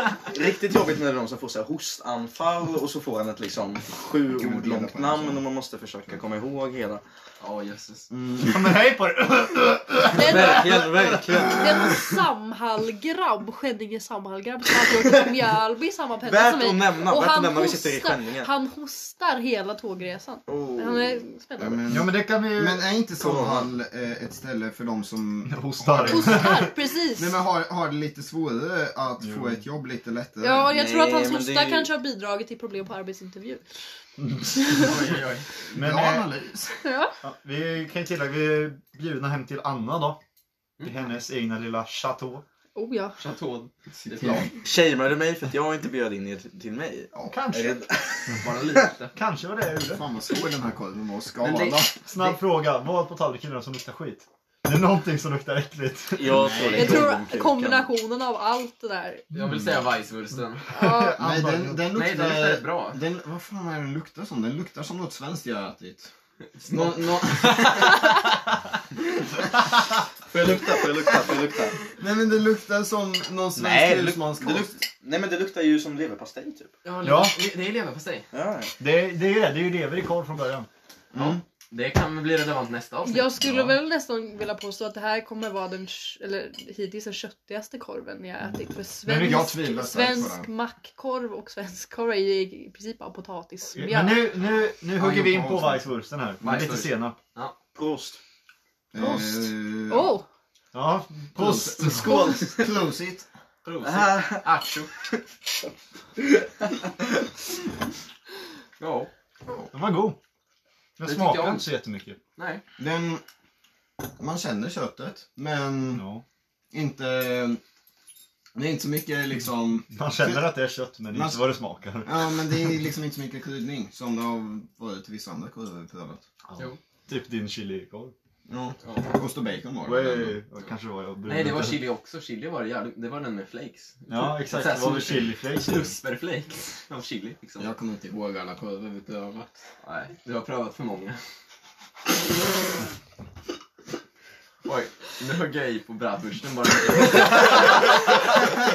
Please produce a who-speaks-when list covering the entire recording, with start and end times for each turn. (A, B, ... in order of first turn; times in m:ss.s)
0:00.2-0:07.0 A
0:04.3-0:05.4 B
0:07.4-0:08.1 C
0:08.1-0:08.6 B
0:08.4-0:11.3 D
0:10.1-0:10.7 E
0:10.2-0:11.7 A
0:11.3-0:21.8 E
0:16.2-0:18.5 A
0:20.5-0:21.2 A
0:21.6-0:30.7 B
0:21.9-0:22.9 D
0:23.2-0:23.7 A
0:25.4-0:26.7 D
0:26.0-0:27.3 E
0:29.2-0:29.6 D
0:30.4-0:33.8 E
0:30.7-0:31.9 A
0:34.2-0:34.9 D
0:34.6-0:35.0 E
0:34.7-0:35.4 C
0:35.7-0:36.3 D
0:35.7-0:36.8 B
0:36.8-0:37.1 E
0:37.2-0:40.2 D
0:40.8-0:42.4 D
0:42.7-0:43.2 E
0:43.2-0:44.5 C
0:44.1-0:44.5 B
0:44.5-0:48.9 A
0:47.1-0:47.4 B
0:47.2-0:47.8 D
0:48.4-0:49.1 C
0:49.1-0:50.1 D
0:49.9-0:52.3 B
0:51.4-0:51.8 C
0:52.1-0:56.7 D
0:56.2-0:57.9 A
0:56.2-0:57.1 B
0:56.7-0:59.2 E
0:59.3-1:00.6 C
1:00.7-1:01.2 E
1:00.7-1:01.8 D
1:01.2-1:06.1 B
1:01.9-1:03.0 C
1:06.6-1:08.2 B
1:10.3-1:11.8 A
1:10.4-1:10.7 B
1:11.9-1:14.8 B
1:13.5-1:16.7 A
1:16.8-1:18.3 C
1:17.0-1:17.4 D
1:18.3-1:18.7 A
1:18.8-1:20.7 D
1:21.1-1:21.4 B
1:21.7-1:23.3 C
1:23.0-1:34.3 E
1:23.4-1:23.8 D
1:29.0-1:29.5 D
1:29.1-1:30.5 B
1:33.7-1:37.2 D
1:35.0-1:35.8 B
1:36.4-1:37.6 C
1:37.7-1:38.2 A
1:38.9-1:40.1 B
1:39.0-1:40.2 E
1:40.7-1:42.2 D
1:41.3-1:43.2 B
1:42.0-1:42.6 E
1:43.6-1:44.9 C
1:43.8-1:44.8 A
1:48.8-1:49.1 C
1:49.7-1:50.2 D
1:51.0-1:52.2 D
1:51.0-1:51.7 C
1:52.4-1:52.6 C
1:52.8-1:53.2 B
1:54.2-1:56.0 B
1:55.9-1:56.2 D
1:56.7-1:57.6 B
1:58.5-2:00.5 B
1:59.9-2:02.8 D
2:01.1-2:01.4 B
2:02.0-2:06.2 B
2:06.5-2:08.1 D
2:08.5-2:10.4 B
2:08.8-2:09.1 C
2:09.8-2:11.8 D
2:11.3-2:17.7 C
2:14.1-2:15.9 D
2:17.6-2:19.6 B
2:19.8-2:21.2 C
2:24.6-2:28.4 C